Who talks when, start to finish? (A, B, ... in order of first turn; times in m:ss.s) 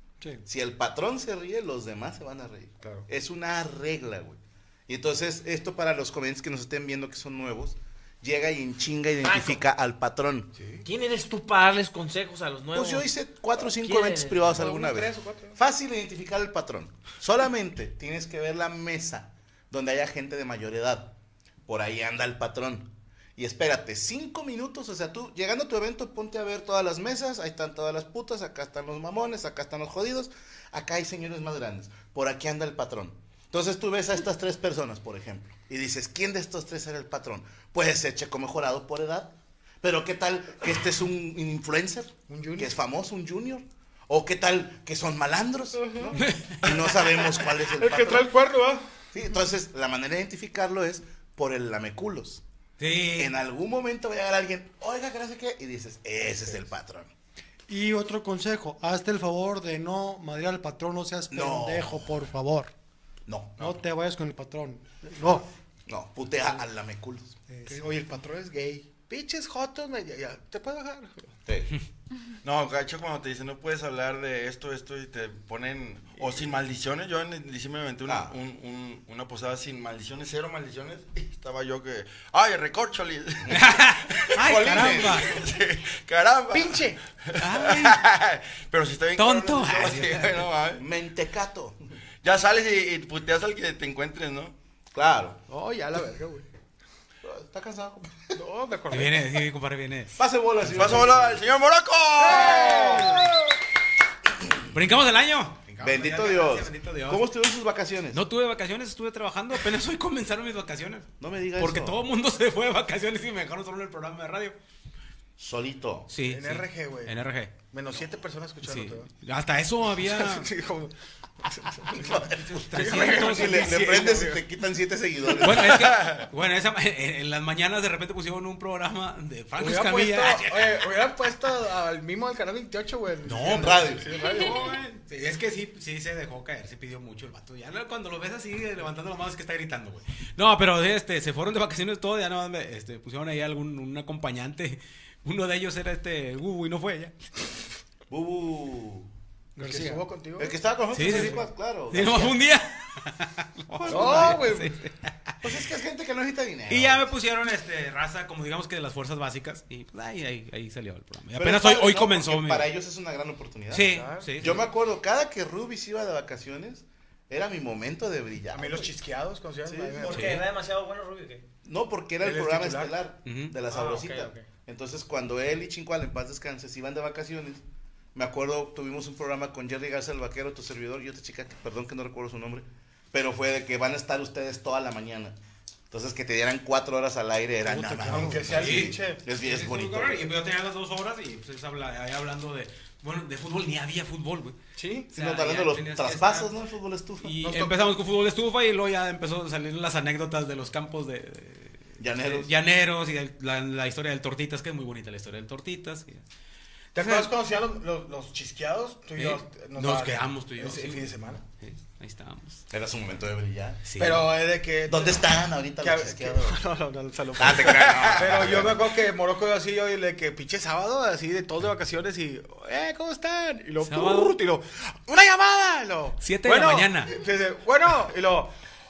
0:00.5-0:10.5 A
0:02.8-0:03.1 B
0:09.2-0:09.6 C
0:10.6-0:10.8 B
0:10.8-0:14.5 C
0:12.7-0:21.1 A
0:14.4-0:15.6 B
0:21.7-0:48.3 A
0:42.3-0:42.8 B
0:45.8-0:46.2 B
0:46.2-0:46.6 D
0:47.0-0:48.8 B
0:49.1-0:52.4 A
0:52.8-0:53.4 D
0:53.2-0:57.1 A
0:57.7-1:02.7 E
1:01.3-1:02.3 A
1:03.3-1:03.7 A
1:03.6-1:05.5 E
1:05.9-1:07.4 A
1:07.5-1:07.9 E
1:07.6-1:11.3 B
1:11.5-1:11.7 A
1:12.4-1:30.8 F
1:18.1-1:18.3 A
1:23.5-1:25.4 D
1:24.4-1:25.4 A
1:26.5-1:27.0 B
1:27.4-1:28.0 D
1:29.2-1:30.5 D
1:30.8-1:31.8 A
1:32.2-1:34.5 F
1:34.9-1:35.4 A
1:35.5-1:36.5 B
1:37.2-1:38.4 A
1:38.3-1:39.4 B
1:38.9-1:40.2 D
1:40.2-1:41.4 A
1:40.6-1:43.1 F
1:42.2-1:43.3 B
1:42.3-1:43.3 A
1:44.4-1:44.8 A
1:44.7-1:47.3 D
1:45.8-1:48.2 A
1:48.1-1:54.6 D
1:51.2-1:52.0 A
1:55.4-1:56.1 A
1:56.1-1:57.6 D
1:56.2-1:59.1 B
1:58.6-2:00.5 D
1:59.9-2:04.5 B
2:02.0-2:06.1 A
2:02.4-2:03.9 D
2:05.4-2:10.9 D
2:05.9-2:06.2 F
2:09.6-2:14.7 B
2:13.3-2:27.2 D
2:13.5-2:14.1 A
2:28.1-2:29.1 A
2:29.6-2:30.0 E
2:29.6-2:31.4 B
2:30.4-2:32.4 A
2:30.9-2:35.1 D
2:33.8-2:34.4 A
2:33.9-2:34.8 B
2:35.4-2:37.1 A
2:36.7-2:42.7 D
2:41.4-2:48.9 A
2:43.7-2:44.7 D
2:43.8-2:44.4 B
2:48.5-2:50.4 B
2:49.8-2:51.5 C
2:50.0-2:50.5 D
2:51.6-2:57.6 A
2:52.2-2:53.0 B
2:53.2-2:53.6 D
2:53.7-2:54.5 C
2:58.2-3:05.4 A
3:05.9-3:10.3 A
3:07.7-3:08.6 E
3:08.1-3:09.2 B
3:08.1-3:14.6 D
3:14.8-3:15.1 B
3:15.1-3:17.4 A
3:15.2-3:16.5 D
3:17.2-3:26.2 D
3:17.4-3:17.9 B
3:22.0-3:22.5 A
3:26.9-3:31.4 B
3:27.0-3:27.3 D
3:29.2-3:32.6 D
3:32.7-3:33.9 A
3:33.8-3:34.2 D
3:34.0-3:48.5 B
3:34.8-3:36.6 A
3:37.4-3:38.9 A
3:43.8-3:44.4 D
3:46.2-3:47.1 D